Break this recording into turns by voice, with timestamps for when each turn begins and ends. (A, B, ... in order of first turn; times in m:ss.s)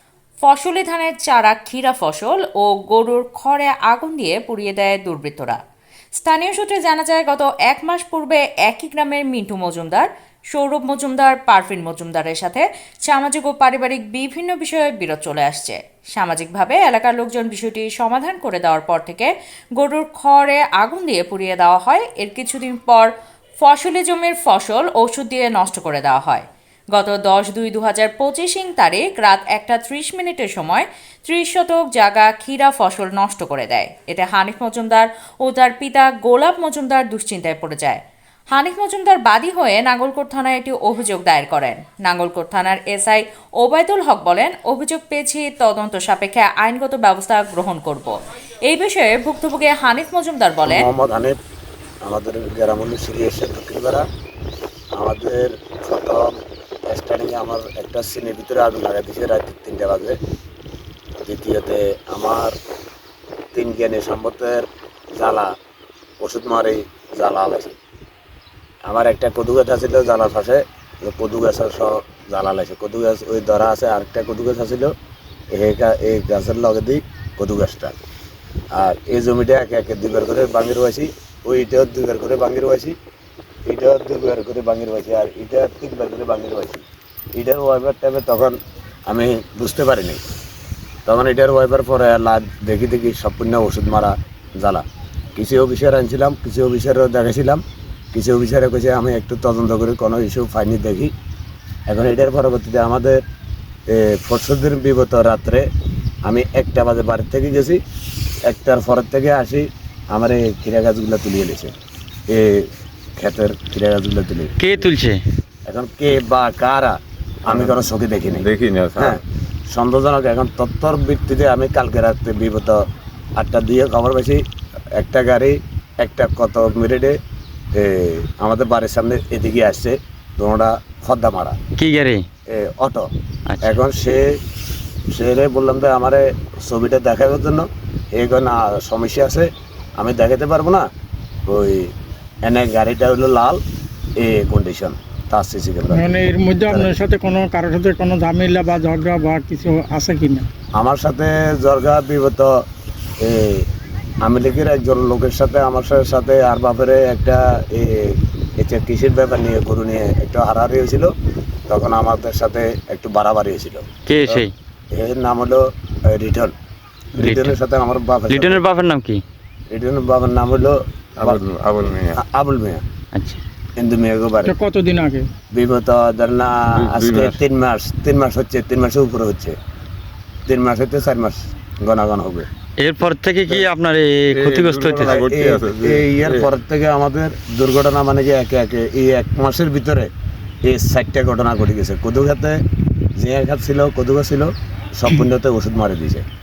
0:00.4-0:05.6 A
0:06.1-0:23.1 A
0:23.6-0:50.8 A
0:50.6-0:51.4 B
0:52.0-0:54.0 B
0:55.0-0:56.3 B
0:56.9-1:00.2 B
1:01.2-1:02.5 B
1:03.5-1:05.5 B
1:06.2-1:07.8 B
1:08.8-1:14.9 B
1:15.5-1:17.9 B
1:18.7-1:22.9 B
1:23.7-1:30.2 B
1:31.0-1:34.8 B
1:35.4-1:41.1 B
1:41.9-1:43.2 B
1:43.9-1:45.7 B
1:46.2-1:47.8 B
1:48.4-1:51.7 B
1:52.3-1:54.9 B
1:54.6-1:55.2 C
1:55.7-2:02.8 B
1:57.5-1:57.8 D
1:58.3-1:59.2 D
2:03.4-2:07.2 B
2:07.7-2:11.6 B
2:11.8-2:12.2 C
2:12.5-2:13.1 B
2:13.5-2:13.8 C
2:13.6-2:14.4 B
2:15.1-2:20.8 B
2:21.5-2:21.9 B
2:22.4-2:23.6 B
2:24.2-2:26.9 B
2:25.9-2:30.5 E
2:30.8-2:32.6 B
2:33.2-2:33.7 B
2:34.2-2:41.1 B
2:41.7-2:46.5 B
2:44.1-2:44.5 C
2:47.1-2:48.6 B
2:47.2-2:47.6 C
2:48.3-2:49.2 C
2:49.7-2:51.4 B
2:51.2-2:52.2 D
2:52.2-2:52.8 B
2:53.1-2:53.4 C
2:53.8-2:54.5 B
2:54.4-2:55.3 E
2:55.5-2:59.6 B
2:56.7-2:57.4 D
3:00.4-3:02.5 B
3:02.8-3:05.2 C
3:04.3-3:06.5 D
3:04.9-3:10.1 B
3:10.6-3:12.6 B
3:13.2-3:16.2 B